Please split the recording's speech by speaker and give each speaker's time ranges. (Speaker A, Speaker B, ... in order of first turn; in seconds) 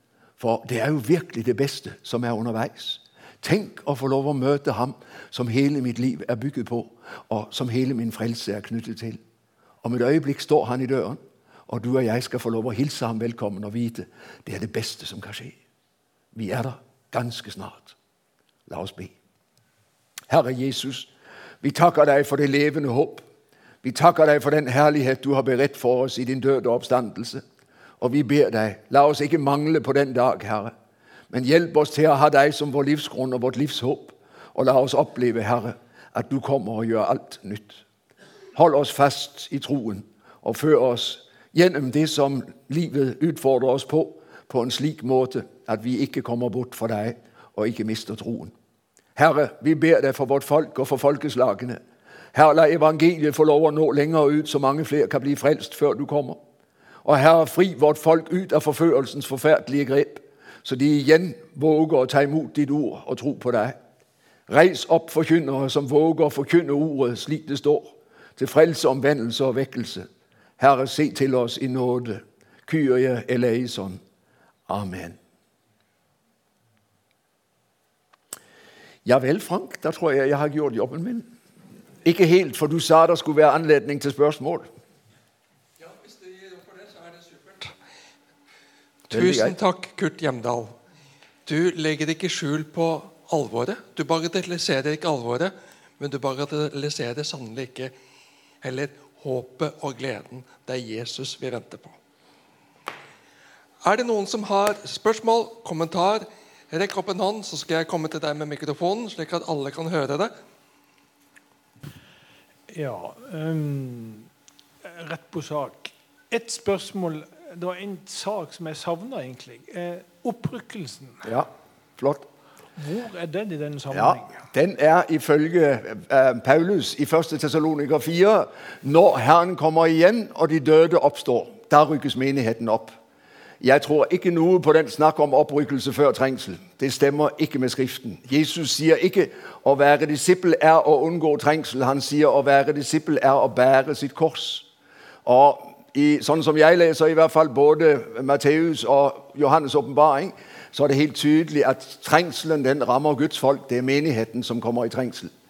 Speaker A: 0.4-9.2, 9.8-15.6, 16.4-17.9, 18.7-19.1, 20.3-21.1, 21.6-23.2, 23.8-27.4, 28.0-30.7, 31.3-37.8, 38.5-48.5, 49.2-51.8, 52.3-56.4, 57.0-63.8, 64.5-70.1, 70.6-74.0, 74.7-75.2, 79.0-81.3, 82.0-84.7, 89.1-89.6, 121.2-122.3, 123.9-133.0, 133.6-144.7, 145.2-155.3
Speaker B: 85.8-87.8, 89.1-90.8, 91.5-97.9, 98.6-102.0, 103.8-110.3
Speaker C: 112.7-114.3, 114.8-121.3, 122.8-124.4